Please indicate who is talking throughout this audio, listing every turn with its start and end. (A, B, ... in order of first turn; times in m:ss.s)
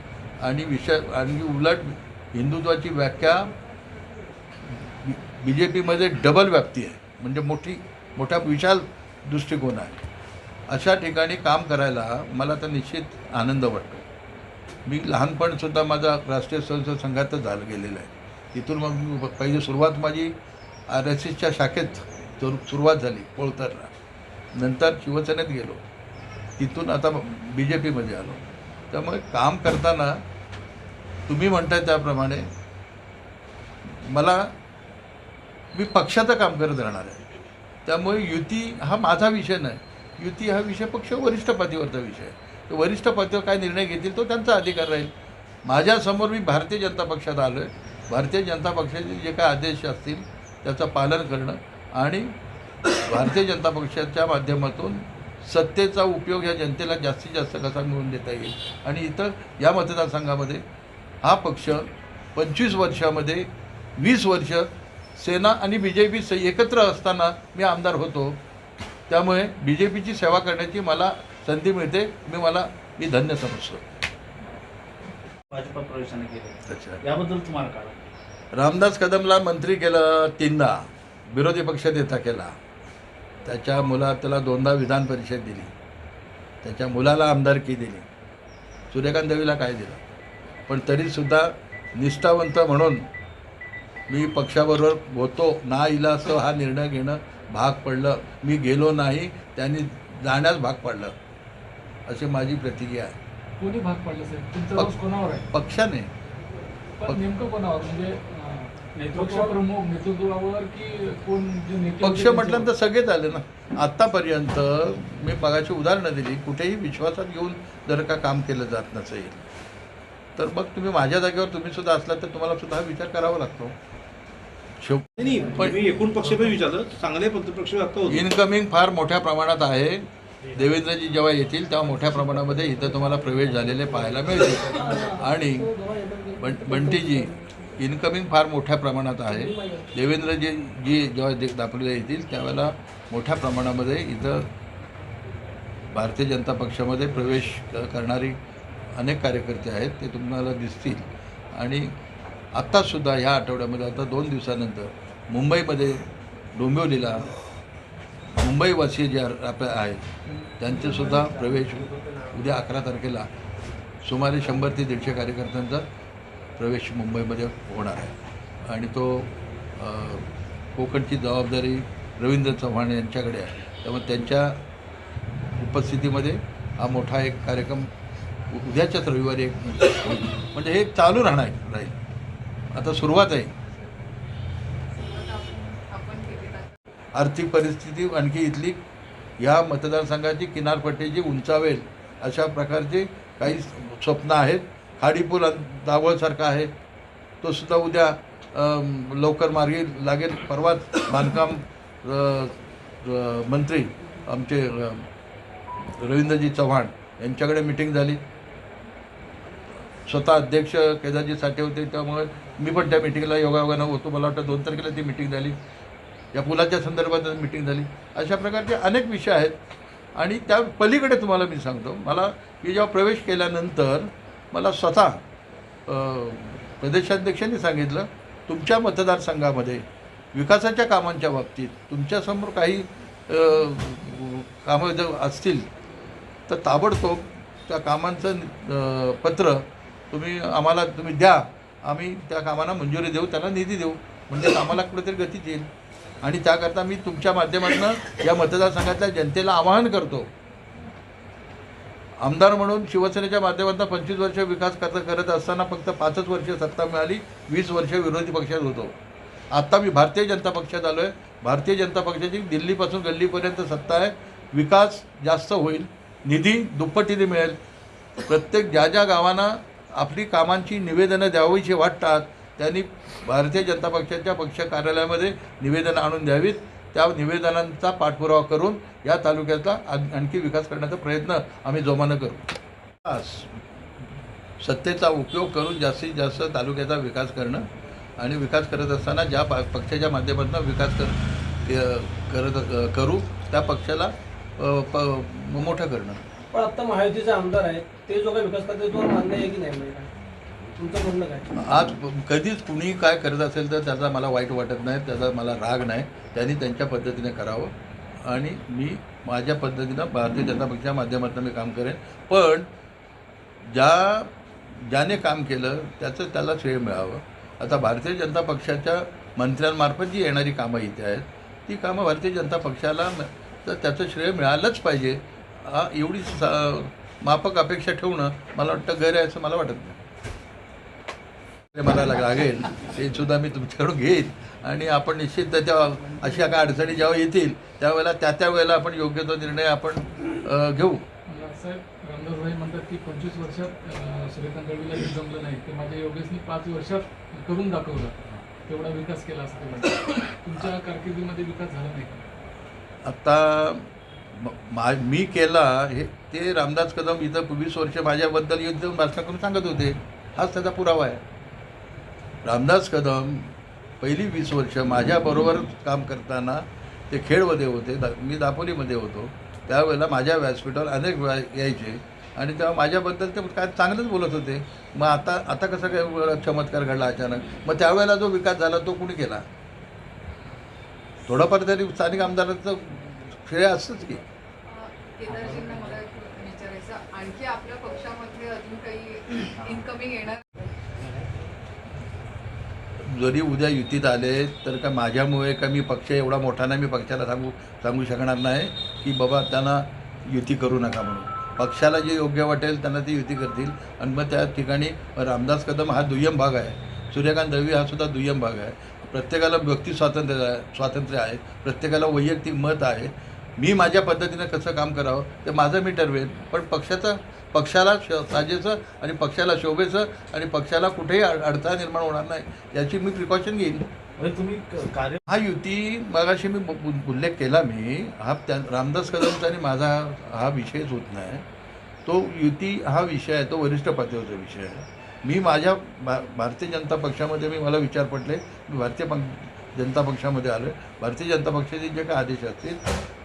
0:00.4-0:03.5 A
0:04.7-0:10.0 A
0:10.7-0:14.0 A
0:14.8-0:20.3 A
0:20.9-0:23.9 A
0:24.5-0:25.8 A
0:26.6-0:30.2 A
0:31.3-0:32.5 A
0:33.9-0:34.5 A
0:35.7-0:37.2 A
0:37.8-0:45.1 A
0:45.6-0:52.3 A
0:53.0-1:00.6 A
1:01.2-1:03.5 A
1:04.0-1:08.4 A
1:09.1-1:13.8 A
1:15.5-1:18.0 B
1:16.7-1:17.0 A
1:18.5-1:22.6 A
1:23.4-1:25.7 A
1:26.6-1:28.1 A
1:28.9-1:30.0 A
1:30.7-1:33.0 A
1:34.1-1:41.1 A
1:42.1-1:43.2 A
1:43.6-1:45.5 C
1:45.5-1:46.1 A
1:47.0-1:52.7 C
1:49.1-1:49.6 D
1:52.0-1:59.4 A
2:00.4-2:03.7 A
2:04.8-2:05.8 A
2:05.2-2:08.3 E
2:08.1-2:15.7 A
2:11.9-2:13.4 D
2:13.6-2:14.4 B
2:14.4-2:17.7 D
2:16.4-2:24.5 A
2:19.3-2:20.0 D
2:25.9-2:28.4 A
2:28.9-2:31.9 A
2:32.5-2:36.0 A
2:36.6-2:37.3 A
2:38.4-2:40.1 A
2:40.6-2:43.3 A
2:40.7-2:42.2 B
2:44.0-2:45.8 A
2:46.6-2:48.1 A
2:48.6-2:54.6 A
2:55.6-2:57.9 A
2:58.5-3:01.9 A
3:02.7-3:03.5 A
3:04.9-3:06.8 F
3:07.1-3:08.8 A
3:09.4-3:16.7 A
3:17.4-3:25.0 A
3:26.0-3:28.2 A
3:30.0-3:35.6 A
3:36.3-3:39.6 A
3:40.2-3:45.2 A
3:45.9-3:55.6 A
3:56.5-4:05.7 A
4:06.2-4:10.3 A
4:12.2-4:18.9 A
4:19.5-4:27.6 A
4:28.3-4:42.4 A
4:43.0-4:43.5 A
4:44.6-4:47.6 A
4:48.2-4:56.2 A
4:56.5-5:00.1 D
5:00.8-5:01.5 D
5:01.6-5:07.7 A
5:08.2-5:12.7 A
5:13.7-5:30.0 A
5:31.7-5:41.0 A
5:41.3-5:52.2 C
5:53.0-6:01.2 A
6:02.4-6:19.4 A
6:21.3-6:24.2 A
6:24.6-6:30.7 F
6:33.0-7:03.8 A
7:04.2-7:05.2 B
7:04.4-7:04.9 D
7:05.3-7:11.4 A
7:12.0-7:22.8 A